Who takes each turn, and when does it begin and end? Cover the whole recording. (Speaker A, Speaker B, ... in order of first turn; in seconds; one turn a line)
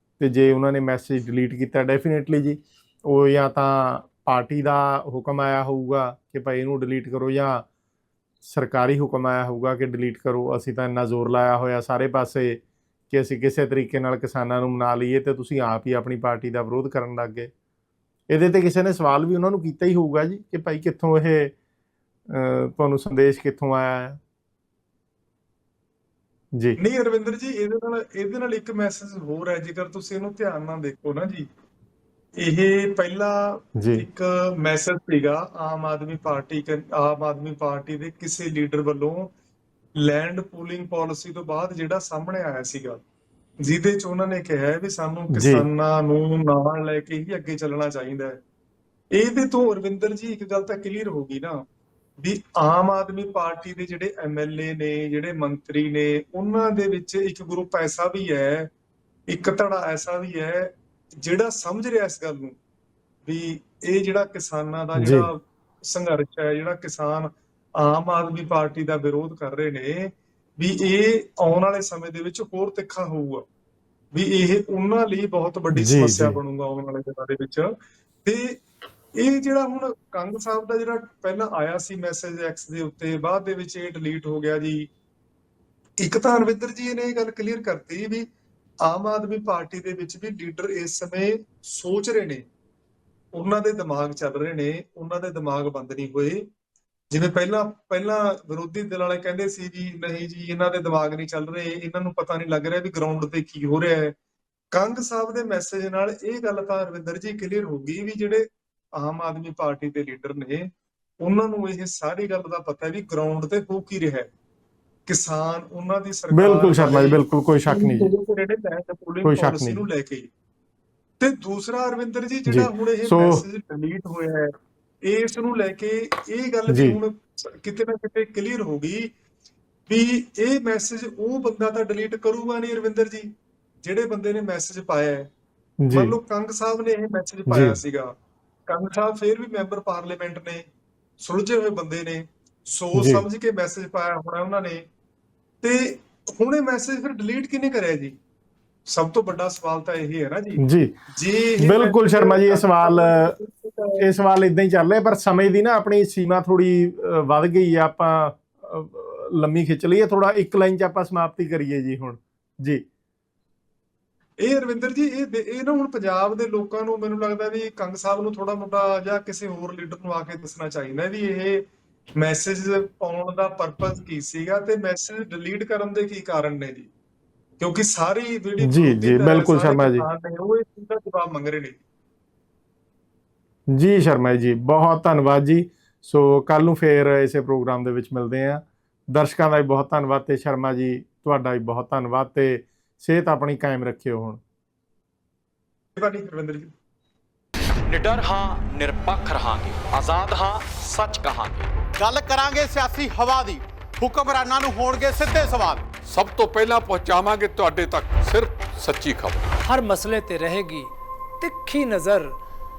Speaker A: 0.2-7.6
Speaker A: 8.4-17.5
Speaker A: 18.3-21.5
Speaker A: 22.3-24.2
Speaker B: 26.8-31.5
Speaker B: 32.4-39.3
Speaker A: 33.8-34.0
Speaker B: 40.0-43.0
Speaker B: 43.6-48.4
Speaker A: 45.3-45.6
Speaker B: 49.1-51.6
Speaker B: 52.2-58.7
Speaker B: 59.3-62.6
Speaker B: 63.2-73.4
Speaker A: 65.0-65.3
Speaker B: 74.1-77.7
Speaker A: 75.7-76.4
Speaker B: 78.2-78.6
Speaker B: 79.2-84.9
Speaker B: 86.0-88.3
Speaker B: 88.8-92.4
Speaker B: 93.3-96.5
Speaker B: 97.1-104.1
Speaker B: 104.7-110.7
Speaker B: 111.2-114.3
Speaker B: 115.0-120.3
Speaker A: 116.3-118.1
Speaker A: 119.2-119.8
Speaker B: 121.2-124.5
Speaker A: 122.5-123.4
Speaker B: 125.0-129.1
Speaker A: 126.7-127.0
Speaker B: 129.9-133.3
Speaker B: 133.8-135.3
Speaker A: 135.8-136.1
Speaker B: 135.9-138.1
Speaker A: 137.5-137.8
Speaker B: 138.7-140.7
Speaker B: 141.2-144.8
Speaker A: 142.9-143.2
Speaker B: 145.6-148.2
Speaker B: 148.9-150.6
Speaker A: 150.6-150.9
Speaker B: 151.1-154.1
Speaker A: 151.6-153.3
Speaker A: 154.0-162.8
Speaker B: 164.4-171.7
Speaker B: 172.2-176.9
Speaker B: 177.6-181.8
Speaker A: 178.6-180.1
Speaker A: 183.7-194.4
Speaker B: 195.9-196.7
Speaker C: 197.9-201.7
Speaker D: 201.9-205.9
Speaker E: 206.1-209.5
Speaker F: 209.6-212.4